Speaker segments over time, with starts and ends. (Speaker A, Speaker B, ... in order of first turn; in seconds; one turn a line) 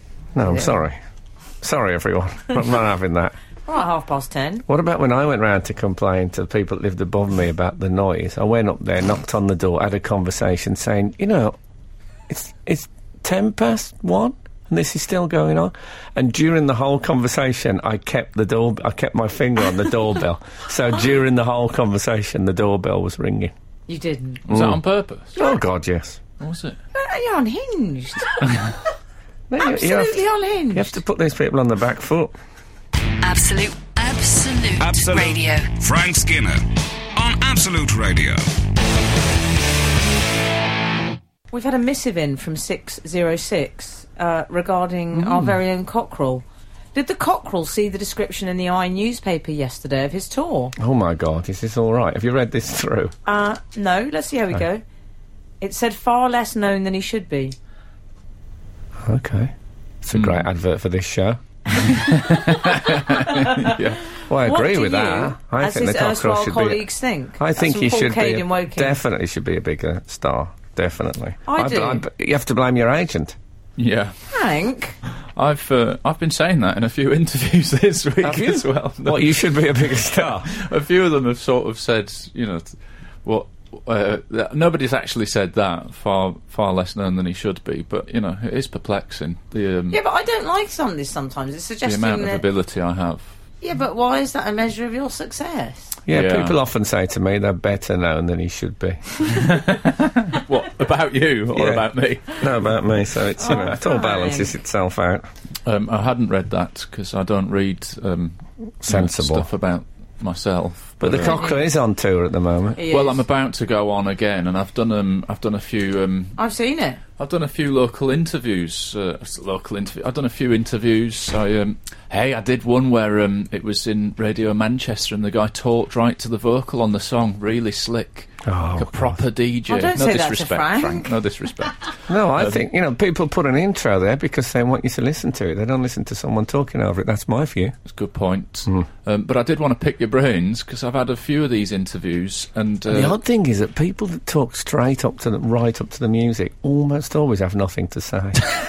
Speaker A: 0.3-1.0
Speaker B: 0.5-0.7
Speaker A: 1.6-3.3
Speaker B: 3.7-4.6
Speaker A: 4.7-11.6
Speaker A: 12.3-23.5
Speaker B: 23.9-24.4
Speaker C: 24.5-25.4
Speaker A: 24.5-24.8
Speaker A: 25.3-26.2
Speaker C: 26.4-26.8
Speaker B: 26.9-28.6
Speaker A: 29.5-32.3
Speaker B: 29.6-31.0
Speaker D: 33.2-35.7
Speaker E: 34.8-38.4
Speaker B: 41.5-50.7
Speaker A: 45.2-45.5
Speaker A: 50.8-53.1
Speaker B: 53.2-54.8
Speaker B: 55.6-57.5
Speaker A: 59.0-61.8
Speaker C: 60.1-60.5
Speaker C: 61.8-64.0
Speaker B: 61.8-63.8
Speaker A: 64.3-66.8
Speaker B: 64.4-69.0
Speaker A: 67.4-73.4
Speaker B: 71.5-72.0
Speaker C: 73.8-74.1
Speaker B: 74.3-75.0
Speaker C: 75.3-90.0
Speaker A: 78.2-80.5
Speaker B: 89.9-92.4
Speaker C: 91.8-93.3
Speaker B: 93.6-95.9
Speaker A: 96.1-99.2
Speaker C: 96.1-96.6
Speaker C: 99.3-102.7
Speaker A: 101.5-105.2
Speaker B: 103.4-104.5
Speaker C: 105.6-111.4
Speaker A: 108.8-109.5
Speaker A: 111.0-112.8
Speaker B: 111.2-111.6
Speaker B: 112.8-113.2
Speaker C: 112.9-116.4
Speaker B: 116.4-117.0
Speaker C: 117.2-132.6
Speaker A: 128.4-129.2
Speaker B: 129.7-131.1
Speaker A: 132.1-137.7
Speaker C: 137.8-143.2
Speaker A: 142.9-148.4